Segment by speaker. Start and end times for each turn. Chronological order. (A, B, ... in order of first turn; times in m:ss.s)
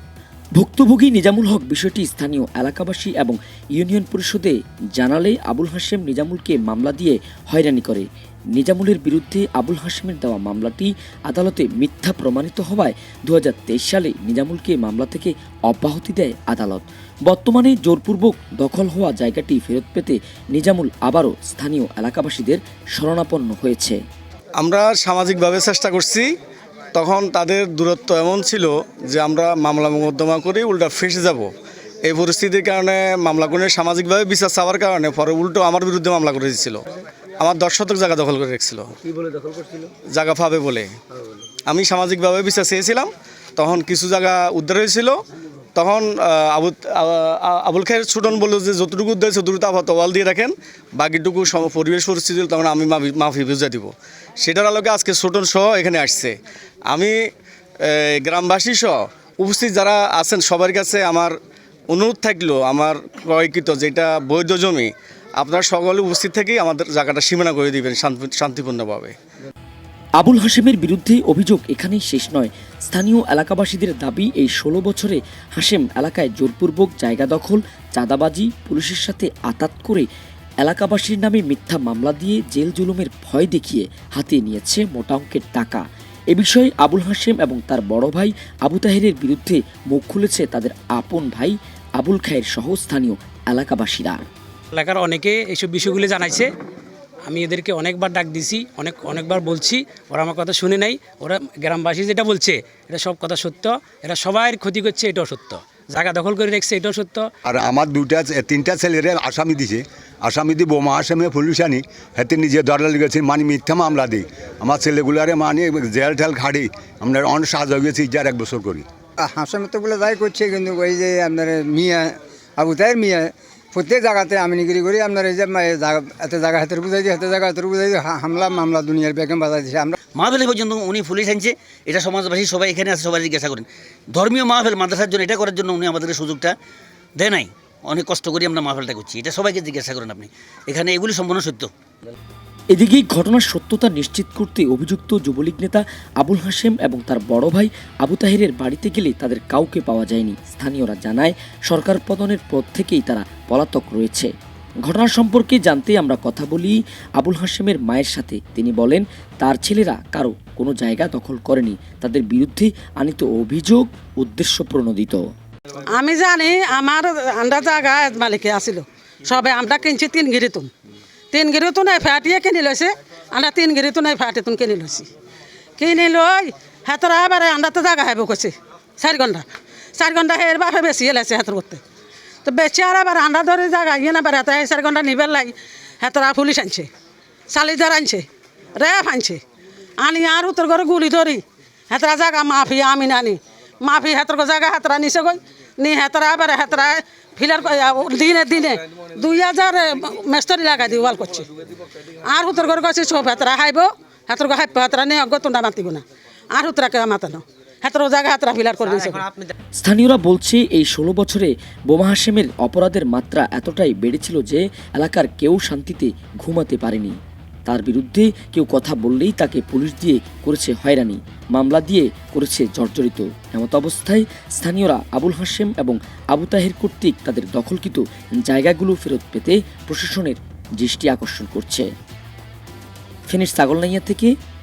0:00.6-0:24.0 A
0:24.6-0:26.3 B
0:26.9-0:31.5 B
0:32.0-0:36.8 B
0:37.4-0:39.0 B
0:39.6-0:40.9 B
0:41.7-0:45.2 B
0:45.8-0:56.3 B
0:57.8-1:01.3 B
1:01.9-1:09.1 B
1:10.2-1:20.1 A
1:20.6-1:34.2 A
1:34.7-1:36.5 C
1:37.2-1:47.3 C
1:47.4-1:58.8 D
1:59.2-2:10.0 E
2:10.1-2:16.5 F
2:17.2-2:21.7 F
2:22.7-2:34.3 A
2:34.8-2:45.2 A
2:45.9-2:50.7 G
2:51.3-2:55.1 G
2:55.8-3:01.8 G
3:02.4-3:06.9 G
3:07.5-3:09.4 G
3:10.0-3:21.5 G
3:22.2-3:29.2 G
3:29.8-3:37.2 A
3:37.7-3:51.9 A
3:53.3-3:54.3 A